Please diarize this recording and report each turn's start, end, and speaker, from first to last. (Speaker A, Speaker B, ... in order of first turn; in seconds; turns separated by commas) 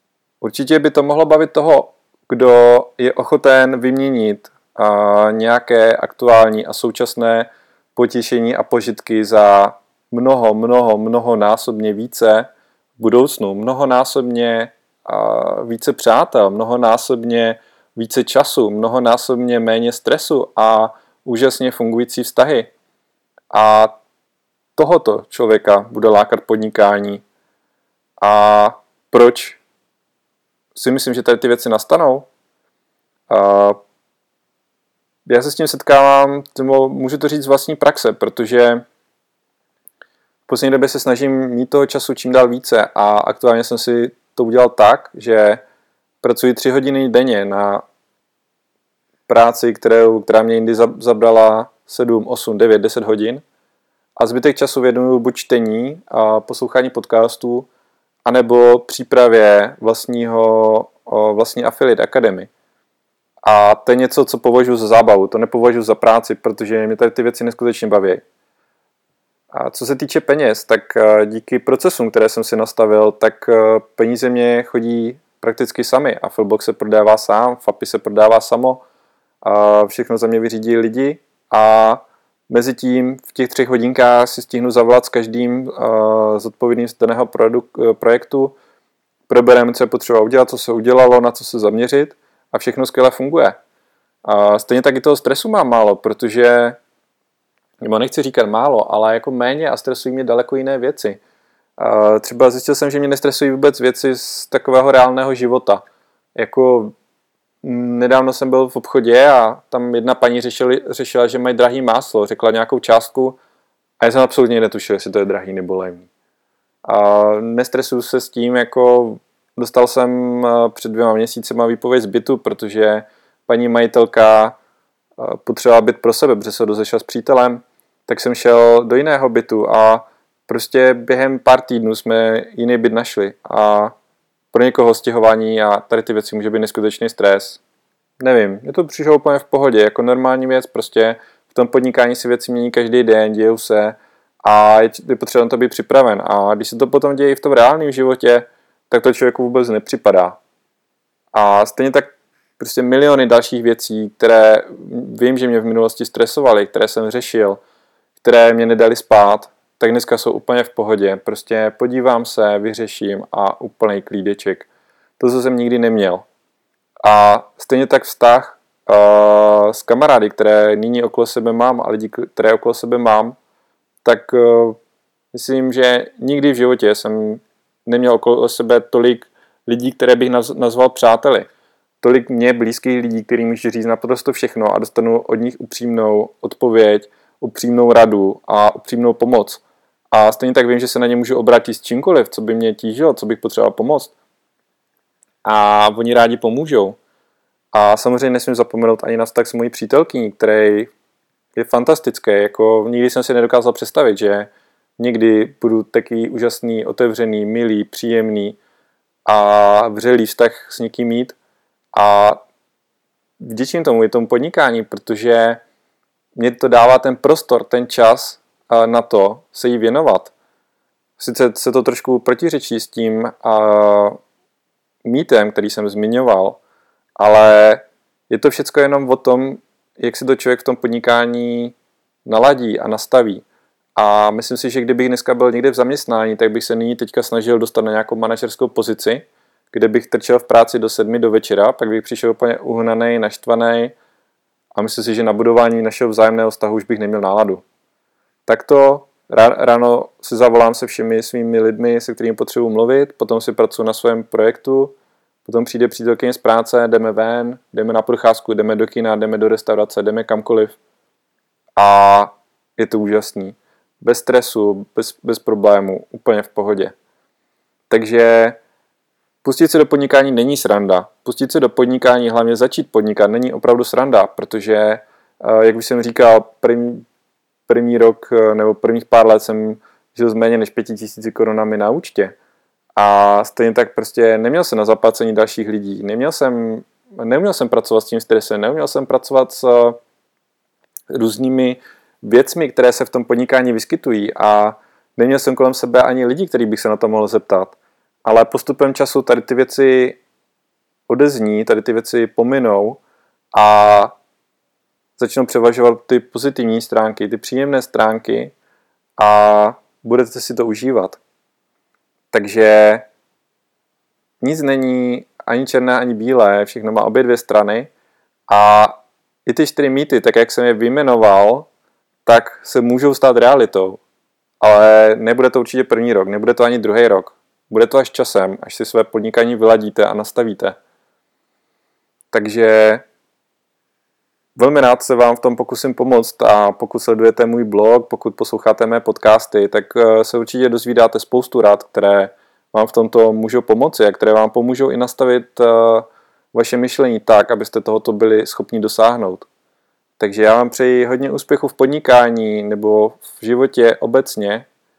Speaker A: 0.4-22.7, Speaker A: 23.5-24.0, Speaker A: 24.8-27.2, Speaker A: 28.2-29.6, Speaker A: 30.7-32.3, Speaker A: 33.3-33.8, Speaker A: 35.2-38.8, Speaker A: 40.5-45.6, Speaker A: 46.2-47.8, Speaker A: 49.3-53.4, Speaker A: 54.2-57.7, Speaker A: 58.2-62.5, Speaker A: 63.4-68.2, Speaker A: 69.5-78.8, Speaker A: 79.4-88.5, Speaker A: 89.3-93.5, Speaker A: 94.2-96.8, Speaker A: 97.8-101.2, Speaker A: 101.8-105.8, Speaker A: 106.3-106.9, Speaker A: 107.6-113.4, Speaker A: 114.0-116.1, Speaker A: 116.8-124.6, Speaker A: 125.2-133.9, Speaker A: 134.5-137.6, Speaker A: 138.2-150.4, Speaker A: 151.3-157.6, Speaker A: 158.2-164.7, Speaker A: 165.2-166.3, Speaker A: 167.0-173.3, Speaker A: 174.0-174.8, Speaker A: 175.3-181.5, Speaker A: 182.0-194.1, Speaker A: 195.4-197.0, Speaker A: 197.7-200.9, Speaker A: 201.6-208.6, Speaker A: 209.2-211.3, Speaker A: 211.9-212.4, Speaker A: 213.4-215.6, Speaker A: 216.3-220.3, Speaker A: 221.2-224.2, Speaker A: 225.0-226.6, Speaker A: 227.2-233.4, Speaker A: 234.0-243.9, Speaker A: 244.8-247.6, Speaker A: 248.5-254.9, Speaker A: 255.4-260.8, Speaker A: 261.8-266.9, Speaker A: 267.9-268.6, Speaker A: 269.4-277.0, Speaker A: 277.7-282.4, Speaker A: 282.9-290.0, Speaker A: 291.1-300.2, Speaker A: 301.1-303.0, Speaker A: 303.5-304.1, Speaker A: 305.2-308.5, Speaker A: 309.2-311.2, Speaker A: 312.3-313.1, Speaker A: 314.4-317.9, Speaker A: 318.5-321.7, Speaker A: 322.2-324.0, Speaker A: 324.6-330.8, Speaker A: 332.3-333.1, Speaker A: 334.6-349.5, Speaker A: 350.2-354.7